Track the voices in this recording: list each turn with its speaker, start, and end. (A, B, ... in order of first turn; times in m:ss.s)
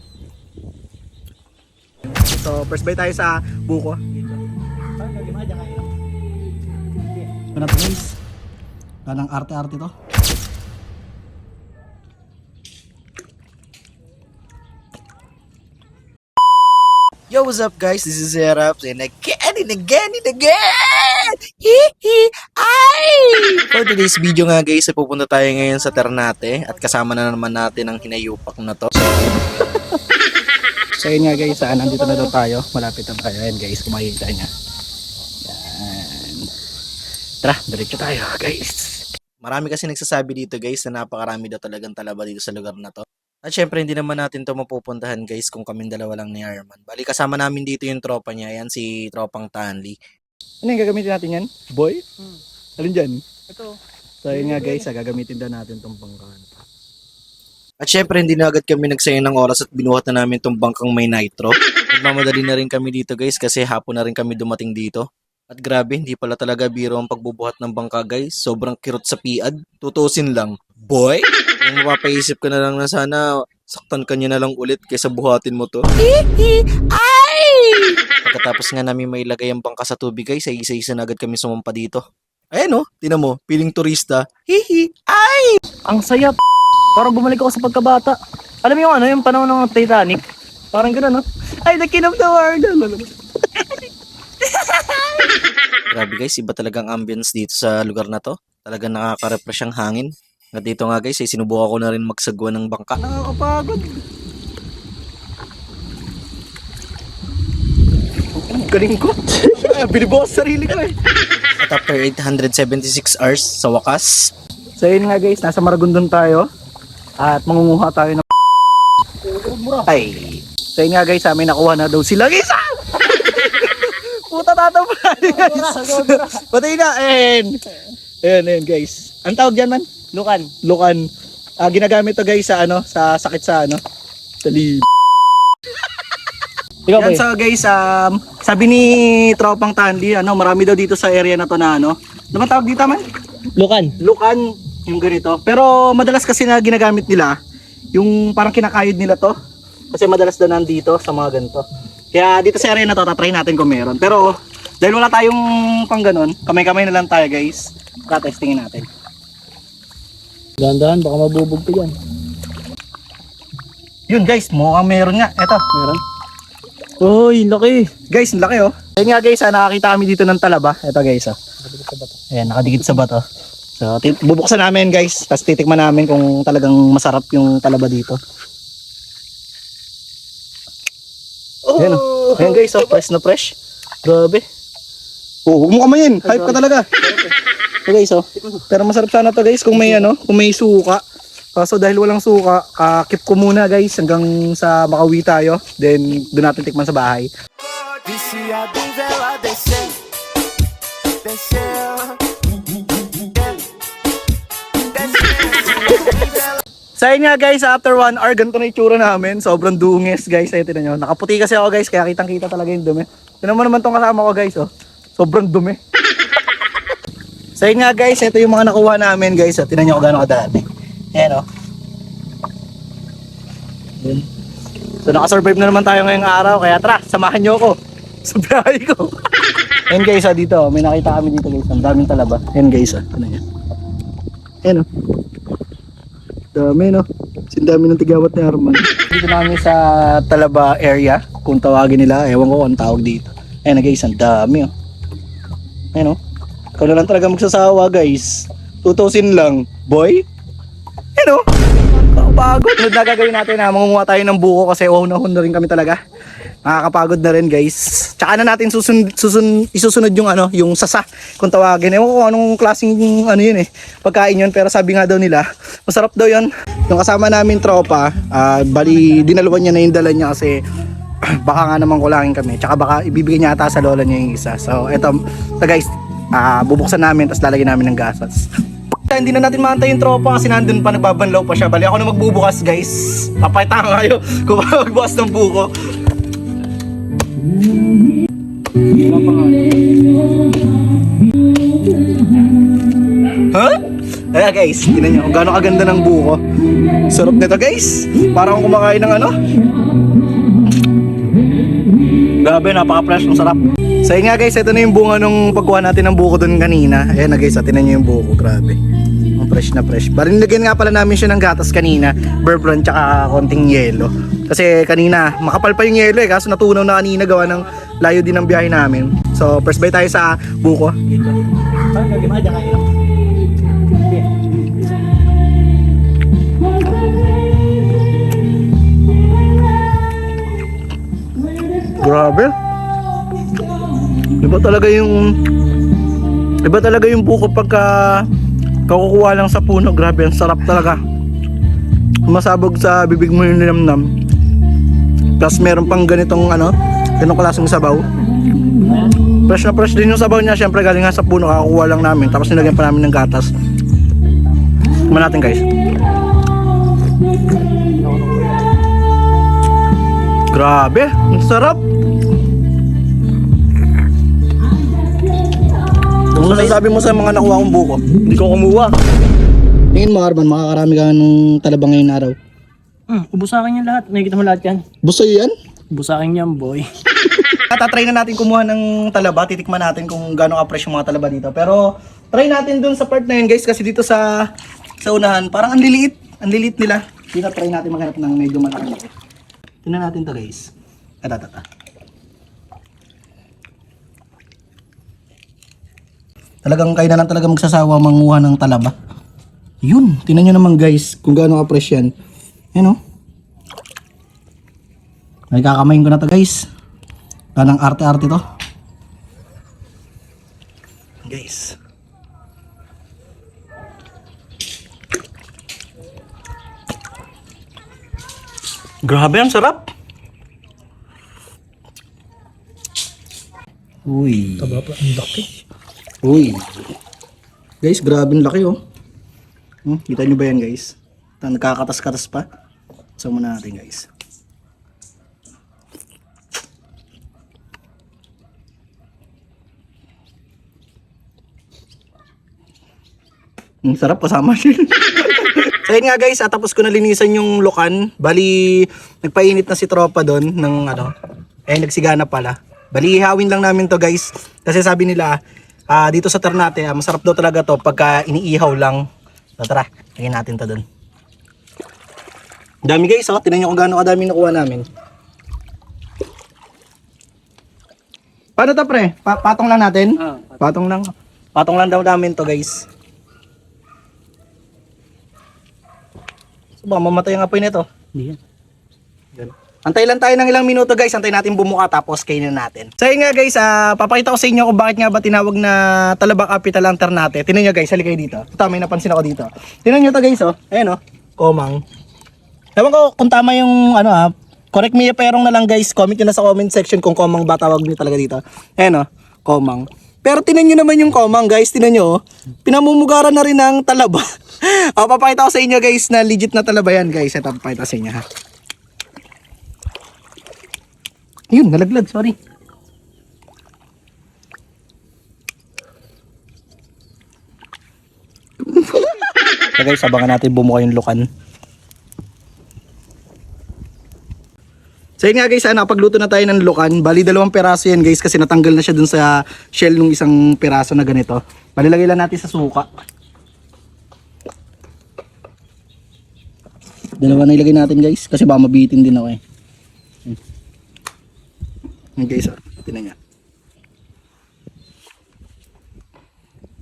0:02.2-0:04.2 A
0:05.0-0:05.9 B
0:07.5-0:08.2 A
0:09.1-0:09.9 A
0:17.3-0:29.3 C
0:31.0-0:34.5 A
0:35.4-0:36.5 A
0:37.4-0:39.0 A
0:39.4-0:50.0 C
0:50.6-0:52.0 A
0:52.8-0:53.2 A
0:53.5-0:53.8 B
0:54.2-0:56.5 A
0:54.5-0:54.8 B
0:57.8-1:25.6 C
1:25.8-1:26.4 B
1:27.0-1:30.2 B
1:30.7-1:31.8 B
1:31.8-1:33.1 A
1:35.9-1:43.0 C
1:43.0-1:44.0 A
1:48.4-1:51.0 A
1:51.6-1:54.3 C
1:54.8-1:56.5 A
1:57.2-1:58.3 A
1:59.3-1:59.8 B
1:59.8-2:07.6 A
2:05.2-2:06.4 B
2:08.2-2:10.0 A
2:10.1-2:10.5 B
2:10.6-2:11.1 A
2:11.6-2:13.8 A
2:14.4-2:14.9 A
2:16.9-2:17.2 B
2:17.0-2:23.1 A
2:23.6-2:24.0 B
2:23.9-2:27.4 A
2:27.9-2:29.4 A
2:29.9-2:38.9 A
2:40.6-2:42.0 B
2:44.1-2:46.0 A
2:47.0-2:47.9 B
2:48.1-2:51.4 A
2:51.7-2:52.1 B
2:52.3-2:53.2 A
2:53.8-2:58.2 A
3:01.7-3:02.7 B
3:01.8-3:04.4 A
3:05.5-3:07.0 A
3:06.4-3:07.3 B
3:07.9-3:11.0 A
3:11.6-3:17.3 A
3:18.0-3:19.9 C
3:21.2-3:22.1 A
3:25.0-3:26.5 A
3:27.0-3:35.8 A
3:37.6-3:41.4 A
3:45.0-3:49.1 A
3:49.9-3:53.4 A
3:56.5-4:04.7 A
4:06.8-4:10.2 A
4:11.2-4:16.0 A
4:16.6-4:30.6 A
4:31.3-4:38.5 A
4:39.1-4:45.7 A
4:49.0-4:49.6 A
4:53.5-4:53.8 A
4:54.3-4:56.4 A
4:57.1-4:59.4 A
5:02.4-5:08.8 A
5:09.4-5:21.2 A
5:21.2-5:22.9 B
5:24.0-5:24.3 B
5:32.0-5:32.6 A
5:34.4-5:35.4 A
5:36.6-5:38.3 A
5:38.9-5:41.0 A
5:42.3-5:44.1 A
5:45.4-5:48.1 A
5:49.5-5:53.5 A
5:55.1-5:55.6 A
5:58.0-5:58.6 B
6:00.5-6:01.8 A
6:06.3-6:08.3 A
6:08.2-6:08.9 B
6:09.9-6:12.4 A
6:13.1-6:14.8 B
6:15.0-6:15.5 A
6:15.9-6:16.9 B
6:17.6-6:24.5 A
6:25.0-6:29.1 A
6:29.8-6:30.7 A
6:31.2-6:31.6 A
6:36.6-6:39.0 A
6:39.8-6:42.1 A
6:45.5-6:46.7 A
6:47.6-6:48.4 A
6:51.2-6:51.8 A
6:59.0-6:59.9 A
7:04.1-7:04.9 A
7:04.6-7:05.5 B
7:06.2-7:06.9 A
7:07.8-7:08.8 A
7:09.8-7:12.4 A
7:13.2-7:14.1 A
7:23.8-7:31.1 A
7:31.7-7:35.4 A
7:35.9-7:39.0 A
7:39.6-7:40.8 A
7:42.8-7:44.8 A
7:48.6-7:52.9 A
7:56.8-7:58.3 A
7:59.4-8:11.8 A
8:12.8-8:28.2 A
8:31.5-8:32.4 A
8:38.7-8:41.3 A
8:45.2-8:52.9 A
8:57.2-8:59.4 A
9:02.2-9:03.2 A